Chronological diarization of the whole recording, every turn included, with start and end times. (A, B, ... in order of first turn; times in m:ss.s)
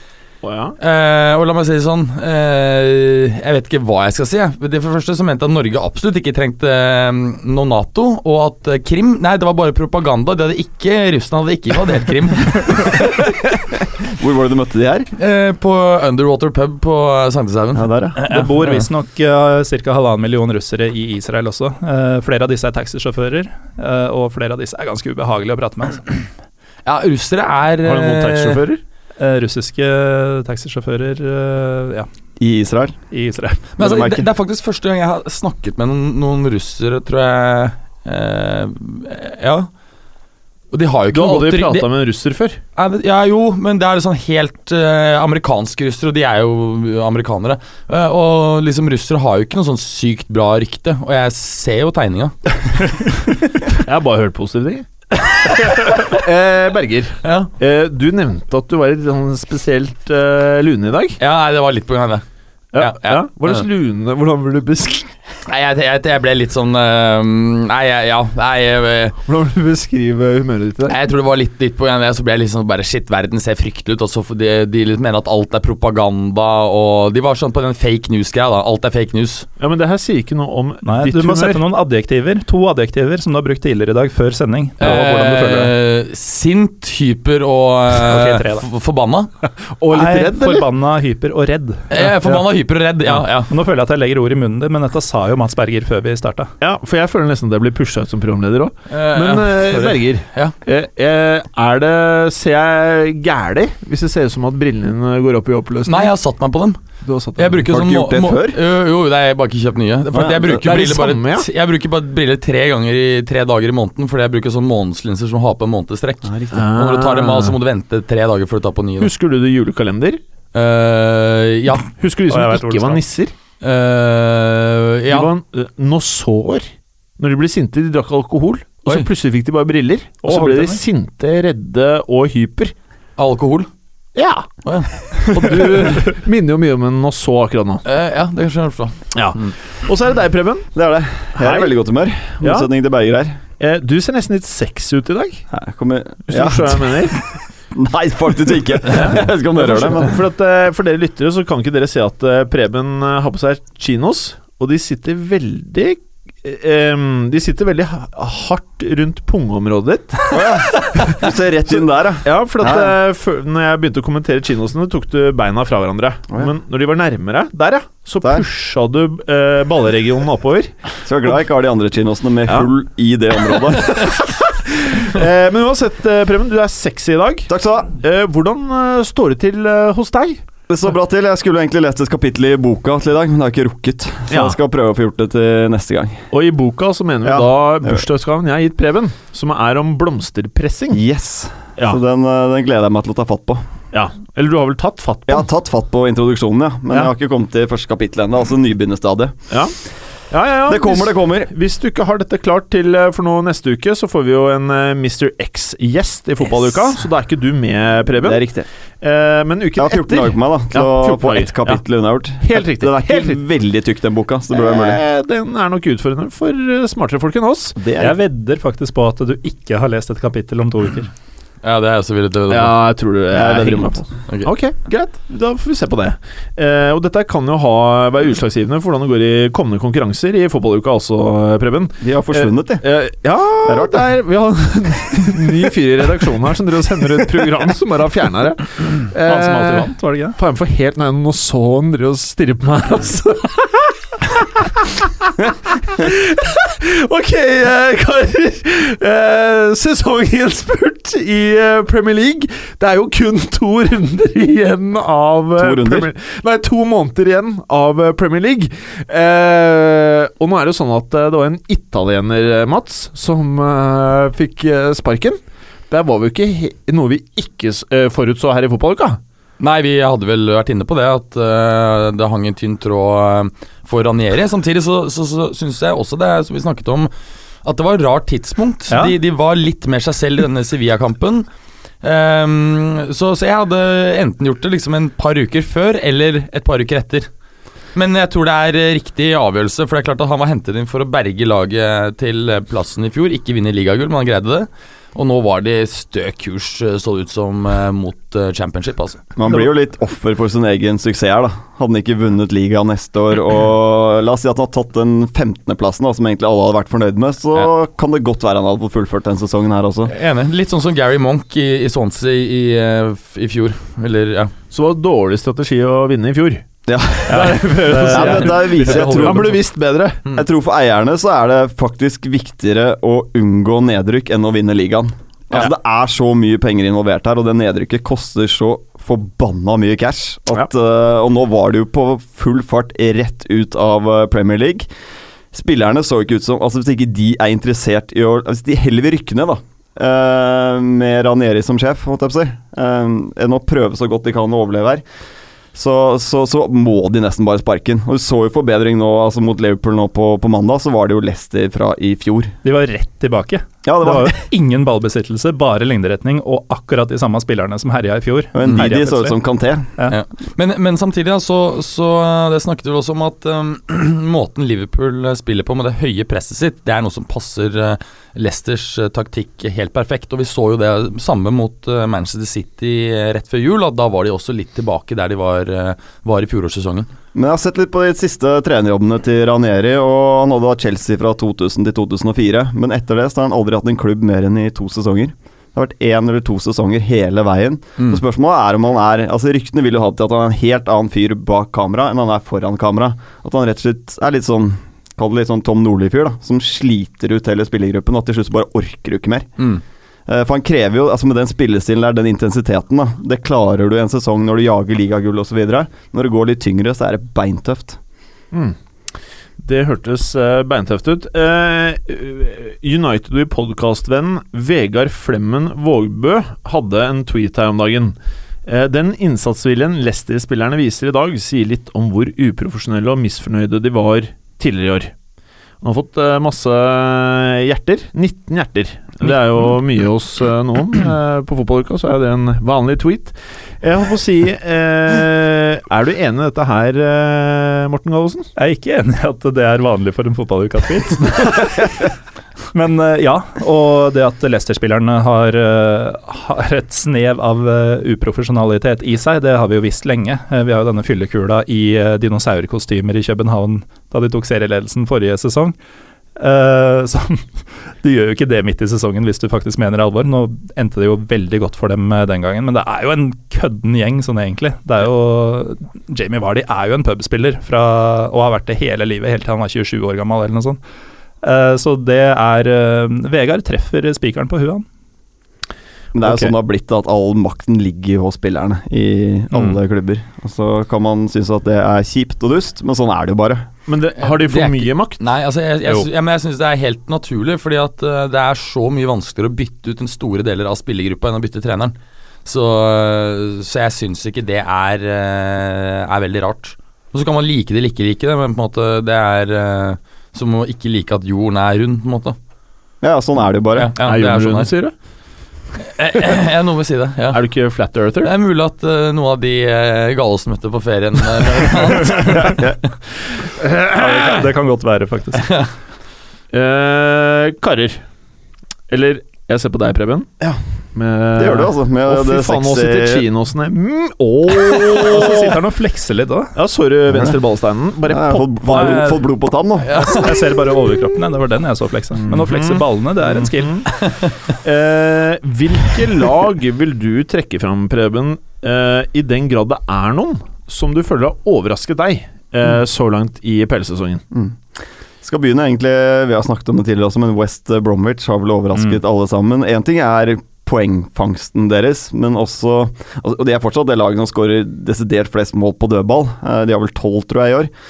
0:00.4-0:00.8 A
0:00.8-0:13.4 B
0:14.1-0:15.1 C
0:15.2-0:18.9 B
0:17.8-0:18.2 C
0:18.2-0:26.0 D
0:26.9-0:28.6 B
0:27.8-0:28.8 A
0:29.2-0:32.1 D
0:32.4-0:33.0 C
0:33.1-0:33.7 D
0:33.8-0:34.3 C
0:33.8-0:39.7 B
0:40.7-0:41.9 B
0:41.1-0:42.6 A
0:42.8-0:52.9 B
0:53.8-1:01.2 A
0:57.2-0:57.5 B
1:01.2-1:02.2 B
1:02.7-1:05.1 A
1:02.8-1:03.6 B
1:05.4-1:09.2 B
1:09.2-1:11.0 A
1:10.9-1:19.5 B
1:19.6-1:21.6 A
1:20.8-1:25.7 D
1:24.8-1:29.3 B
1:27.9-1:28.7 D
1:29.7-1:30.7 A
1:29.9-1:32.1 D
1:31.9-1:33.5 B
1:33.2-1:36.5 D
1:36.6-1:46.1 A
1:38.9-1:40.6 B
1:45.9-1:46.8 B
1:47.0-1:47.7 A
1:47.4-1:59.1 B
1:47.6-1:48.6 C
1:50.1-1:50.6 C
1:50.4-1:51.5 A
1:56.2-1:56.6 C
1:56.5-1:57.6 A
1:59.0-2:00.2 A
2:00.5-2:01.9 B
2:01.9-2:03.3 A
2:02.3-2:03.0 D
2:03.6-2:05.3 B
2:05.1-2:06.7 A
2:07.2-2:12.7 A
2:10.2-2:10.8 D
2:13.2-2:13.7 B
2:14.2-2:14.5 A
2:14.6-2:16.1 B
2:15.2-2:17.8 A
2:17.8-2:19.5 B
2:19.1-2:20.7 A
2:20.7-2:23.4 C
2:21.4-2:21.7 A
2:22.4-2:22.7 A
2:23.6-2:25.5 A
2:25.5-2:27.2 C
2:26.3-2:27.2 A
2:27.7-2:30.2 C
2:28.9-2:41.2 A
2:40.3-2:43.0 C
2:42.2-2:50.7 A
2:51.0-2:54.2 C
2:54.0-3:00.4 A
2:57.5-2:57.9 C
3:00.7-3:06.3 C
3:04.3-3:04.6 A
3:06.3-3:11.0 A
3:07.2-3:08.0 C
3:10.9-3:13.6 C
3:13.9-3:15.5 A
3:15.3-3:19.4 C
3:20.3-3:28.4 A
3:20.7-3:21.5 C
3:28.2-3:28.7 C
3:29.0-3:31.8 A
3:29.8-3:35.0 C
3:32.4-3:33.4 A
3:34.5-3:37.8 A
3:37.8-3:38.2 C
3:38.0-3:41.1 D
3:41.6-3:42.8 B
3:42.5-4:29.2 A
3:43.3-3:44.1 C
3:44.3-3:44.5 B
3:52.0-3:52.8 C
3:53.6-3:54.1 C
3:59.3-4:00.4 D
4:15.6-4:16.1 C
4:29.6-4:37.1 B
4:37.6-4:41.5 B
4:38.9-4:39.2 D
4:42.0-4:47.3 B
4:48.0-4:59.3 B
4:59.4-5:10.1 C
5:10.1-5:14.5 B
5:14.7-5:16.6 A
5:16.9-5:19.6 C
5:17.3-5:20.2 A
5:17.3-5:19.5 D
5:20.3-5:34.9 C
5:35.5-5:45.0 C
5:45.7-5:52.6 C
5:52.6-5:59.4 D
5:53.8-5:54.4 C
5:58.5-5:59.9 C
6:00.1-6:17.1 B
6:17.3-6:39.5 C
6:40.3-6:48.0 C
6:49.6-6:58.2 A
6:58.7-7:05.1 A
7:05.8-7:18.5 A
7:18.6-7:22.1 D
7:22.7-7:35.8 D
7:36.4-7:37.5 D
7:38.0-7:50.8 D
7:51.4-7:54.8 D
7:56.1-8:03.7 C
8:03.9-8:05.2 A
8:04.2-8:22.4 B
8:23.0-8:23.9 C
8:23.8-8:24.7 B
8:24.0-8:24.9 A
8:25.8-8:27.4 B
8:27.3-8:28.3 A
8:28.2-8:32.8 B
8:32.4-8:32.8 C
8:33.7-8:34.2 A
8:33.9-8:35.6 D
8:35.4-8:35.7 B
8:36.5-8:38.0 A
8:38.9-8:40.3 A
8:40.9-8:45.6 A
8:41.4-8:43.3 C
8:45.0-8:46.6 D
8:46.6-8:49.1 A
8:47.1-8:47.4 C
8:48.1-8:50.3 C
8:48.7-8:49.3 D
8:49.8-8:50.4 B
8:49.9-8:53.9 D
8:52.3-8:53.9 A
8:54.0-8:54.3 B
8:54.5-9:04.2 A
9:04.3-9:04.6 C
9:05.2-9:17.7 C